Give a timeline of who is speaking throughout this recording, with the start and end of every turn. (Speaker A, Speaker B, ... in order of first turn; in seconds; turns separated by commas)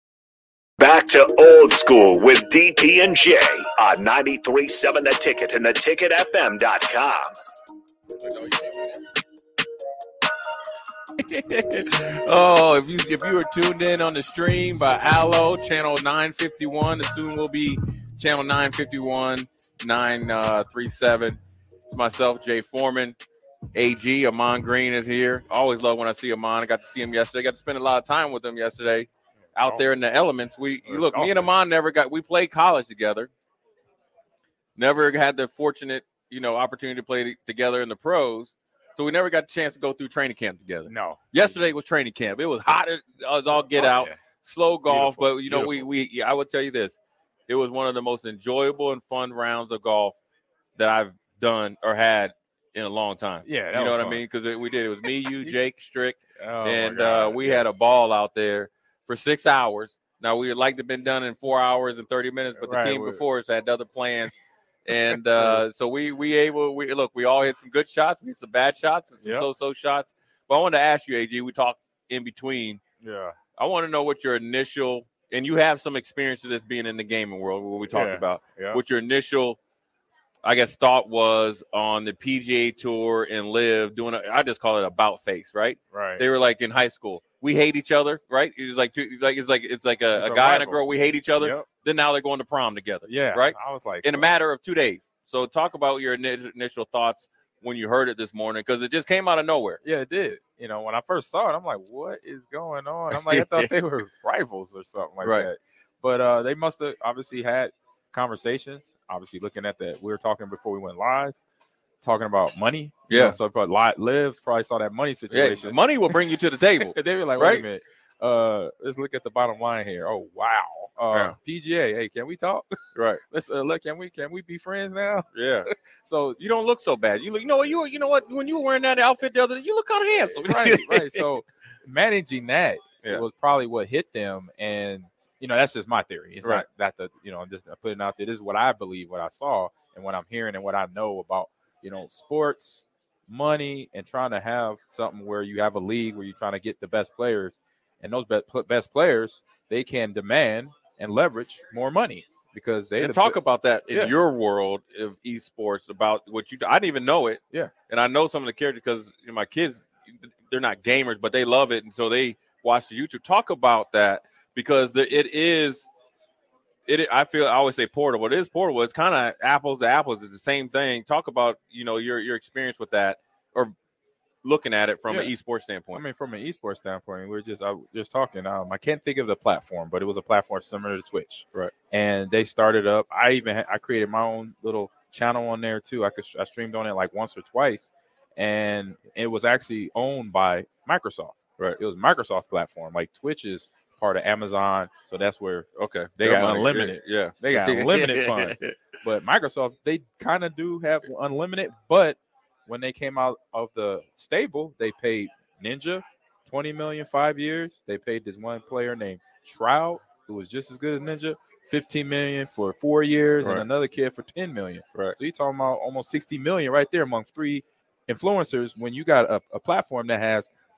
Speaker A: 0.8-7.5, Speaker B: 8.2-9.0, Speaker B: 11.2-23.2, Speaker B: 23.7-33.3, Speaker C: 29.6-29.9, Speaker C: 30.8-31.5, Speaker B: 34.8-47.0, Speaker C: 40.9-41.6, Speaker C: 43.5-44.2, Speaker C: 44.9-45.9, Speaker B: 47.5-50.1, Speaker B: 50.8-72.8, Speaker C: 53.5-54.2, Speaker C: 55.3-55.6, Speaker C: 56.4-57.7, Speaker C: 62.5-63.2, Speaker C: 64.9-65.6, Speaker C: 69.2-69.5, Speaker C: 73.0-73.4, Speaker B: 73.6-79.6, Speaker C: 77.9-78.8, Speaker B: 80.4-99.8, Speaker C: 85.9-86.2, Speaker C: 90.1-91.7, Speaker C: 93.1-94.3, Speaker C: 99.8-111.4, Speaker B: 103.1-103.7, Speaker B: 105.2-105.5, Speaker C: 112.0-116.2, Speaker B: 113.1-113.4, Speaker B: 115.3-117.7, Speaker C: 116.8-122.8, Speaker B: 123.0-123.2, Speaker C: 123.3-126.4, Speaker B: 125.3-125.7, Speaker B: 126.4-131.3, Speaker C: 130.4-153.4, Speaker B: 153.0-165.9, Speaker B: 166.9-173.8, Speaker B: 174.4-176.0, Speaker C: 175.1-175.3, Speaker C: 175.9-220.5, Speaker B: 195.8-198.8